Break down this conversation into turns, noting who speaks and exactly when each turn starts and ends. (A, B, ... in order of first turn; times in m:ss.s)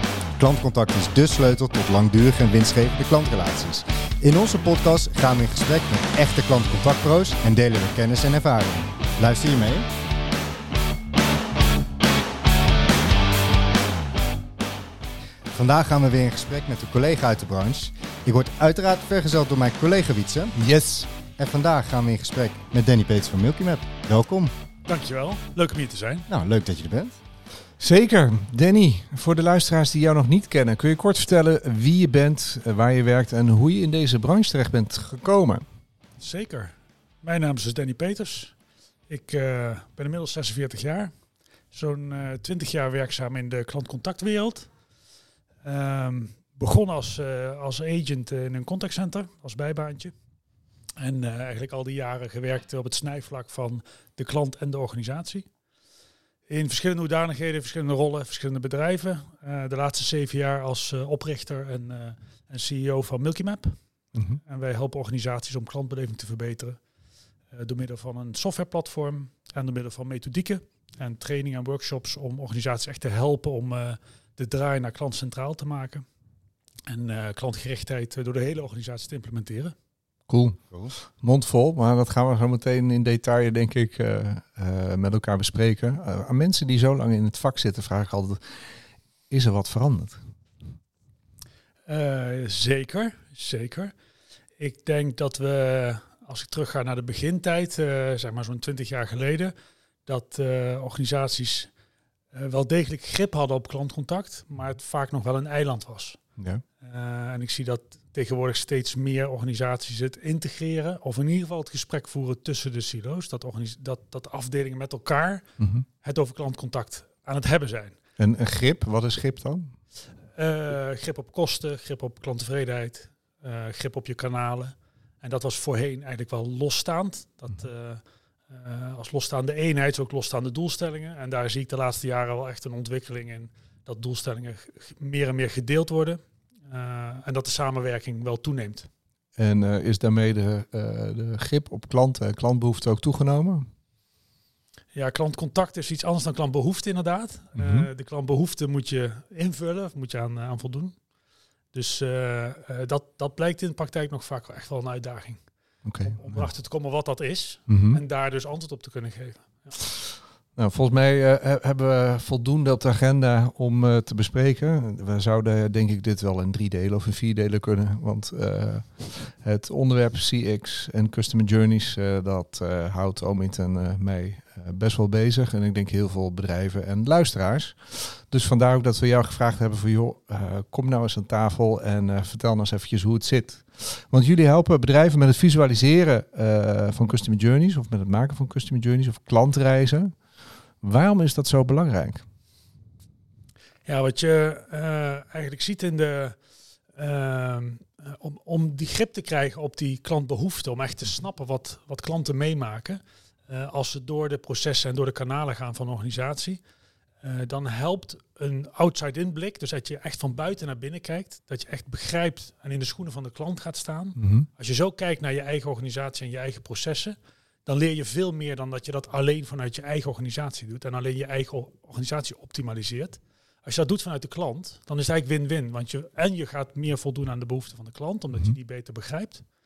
0:00.4-0:09.9 A
0:15.5-0:20.6 A
0:20.6-0:21.1 B
0:21.4-0:24.5 A
0:24.9-0:26.3 C
0:26.3-0:27.2 A
0:27.8-0:35.6 B
0:36.2-0:38.6 C
0:39.1-0:41.1 C
0:41.7-0:44.7 C
0:45.6-0:50.1 C
0:51.0-0:55.5 C
0:56.5-1:03.8 C
1:04.2-1:04.4 B
1:04.4-1:06.8 C
1:07.5-1:16.1 C
1:16.9-1:19.8 C
1:20.3-1:28.7 B
1:29.3-1:30.2 B
1:31.9-1:33.9 C
1:34.6-1:39.5 C
1:40.1-1:41.7 C
1:42.3-1:46.2 C
1:46.4-1:46.6 B
1:46.8-1:55.5 C
1:55.6-1:55.9 B
1:56.0-1:58.0 C
1:58.2-1:59.7 B
2:00.4-2:18.9 C
2:19.4-2:23.7 B
2:25.0-2:31.0 C
2:27.6-2:27.9 B
2:31.7-2:35.4 C
2:35.8-2:36.5 B
2:36.0-2:39.8 C
2:37.7-2:38.0 B
2:40.6-3:10.1 B
3:10.8-3:12.2 B
3:13.9-3:16.4 C
3:17.0-3:26.6 C
3:27.2-3:49.4 C
3:34.2-3:34.5 B